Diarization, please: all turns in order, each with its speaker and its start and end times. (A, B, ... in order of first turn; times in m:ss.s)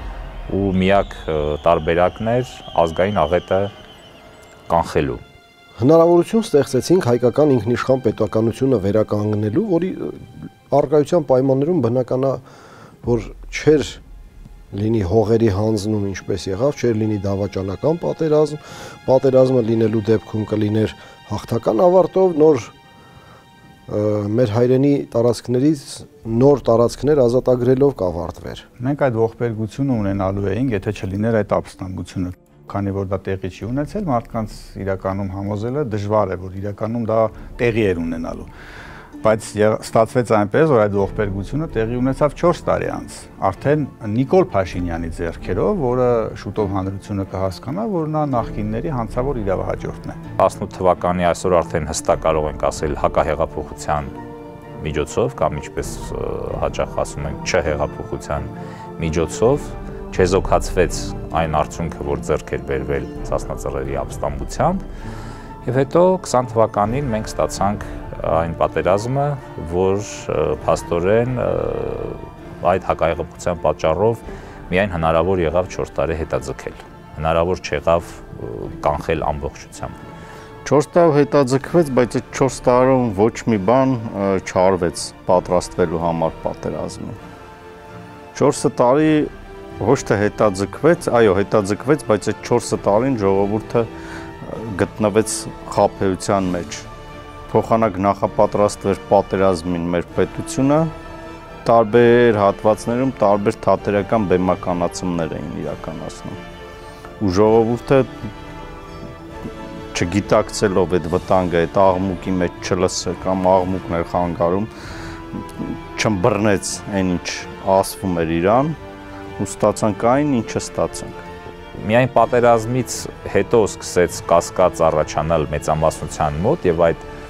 0:00.5-0:03.7 A
0:04.7-0:05.2 A
0:05.8-0:12.4 B
0:13.0-0:14.0 B
0:14.7-0:22.7 B
0:23.9-0:28.6 B
0:28.8-0:38.5 C
0:39.2-0:50.2 C
0:50.4-0:54.1 A
0:54.8-1:04.8 A
1:05.6-1:20.0 A
1:20.6-1:27.2 D
1:28.3-1:33.9 D
1:34.4-1:36.9 D
1:37.5-1:40.9 D
1:41.6-1:46.4 D
1:47.2-1:48.1 D
1:49.9-1:54.7 D
1:55.6-1:58.8 D
1:59.4-2:01.2 D
2:01.7-2:07.0 A